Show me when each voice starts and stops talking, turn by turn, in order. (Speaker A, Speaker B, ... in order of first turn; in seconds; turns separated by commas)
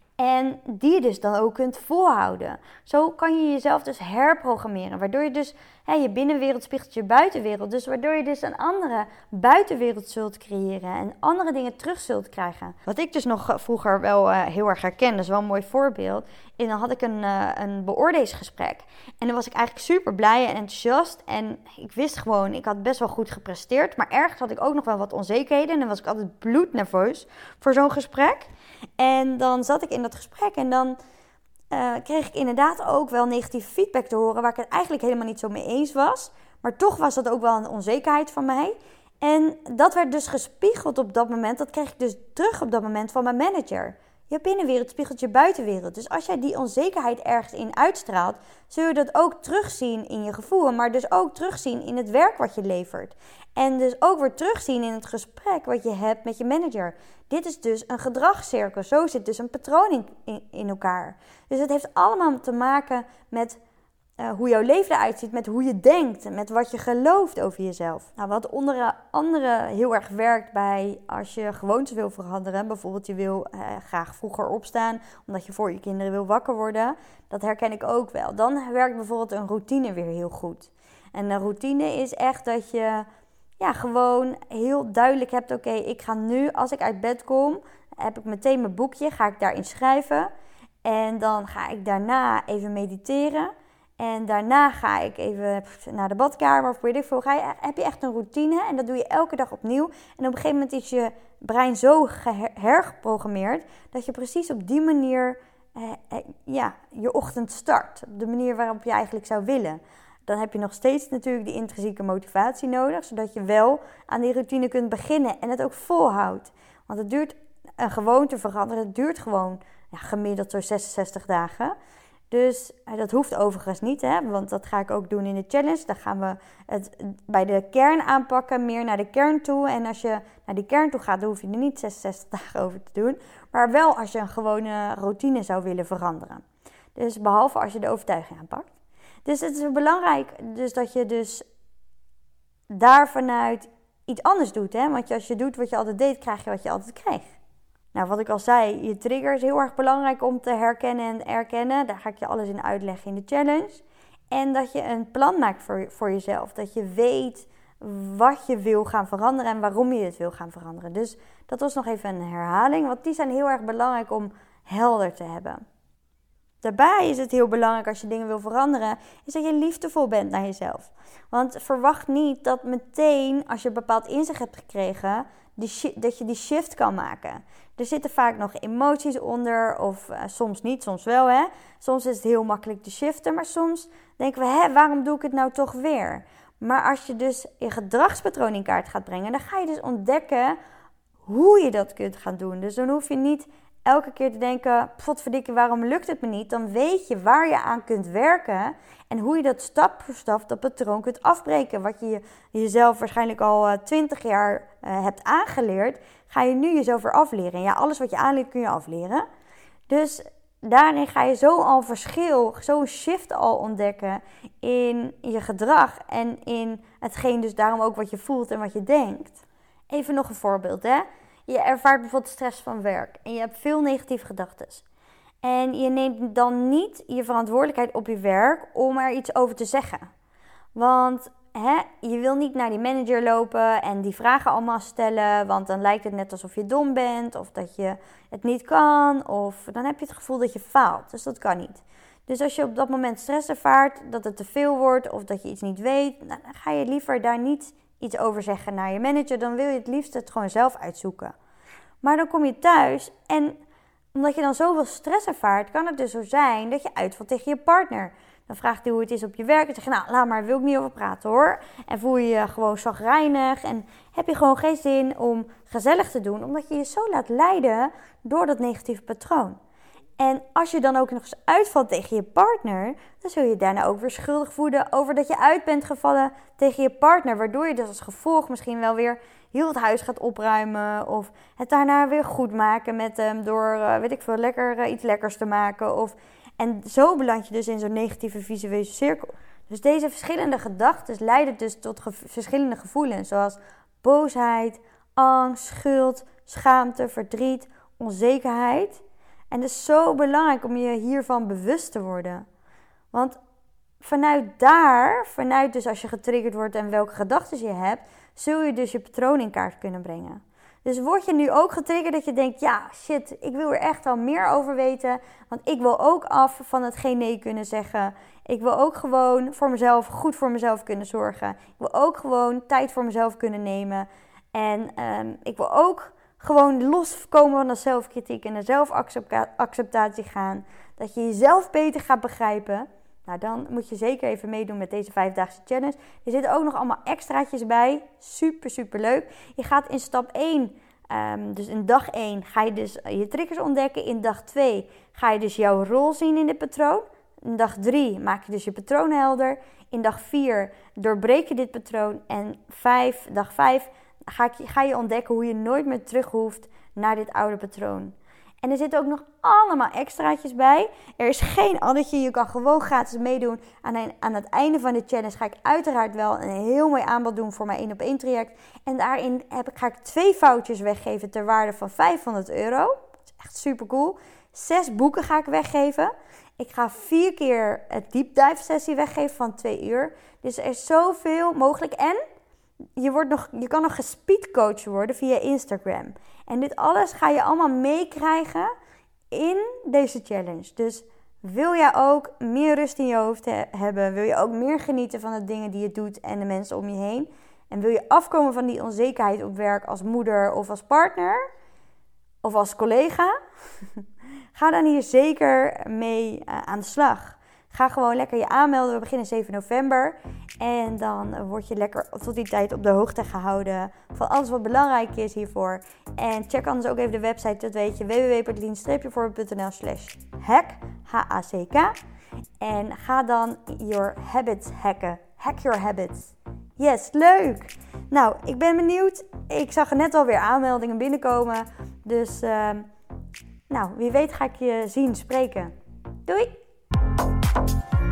Speaker A: 0.2-31.0, Speaker A: 31.7-63.6, Speaker A: 64.2-83.1, Speaker A: 83.6-90.3, Speaker A: 90.8-121.8, Speaker A: 122.3-136.4, Speaker A: 136.9-138.7, Speaker A: 139.2-141.4, Speaker A: 142.7-147.3, Speaker A: 147.9-165.6, Speaker A: 166.6-190.6, Speaker A: 191.2-209.2, Speaker A: 209.9-224.8, Speaker A: 225.4-230.1, Speaker A: 230.7-251.3, Speaker A: 252.0-253.6, Speaker A: 254.1-269.6, Speaker A: 270.2-302.4, Speaker A: 303.1-303.4, Speaker A: 304.0-382.2, Speaker A: 383.0-388.7, Speaker A: 389.3-401.4, Speaker A: 402.4-403.3, Speaker A: 404.5-421.9, Speaker A: 422.6-432.9, Speaker A: 433.7-435.7, Speaker A: 436.2-436.6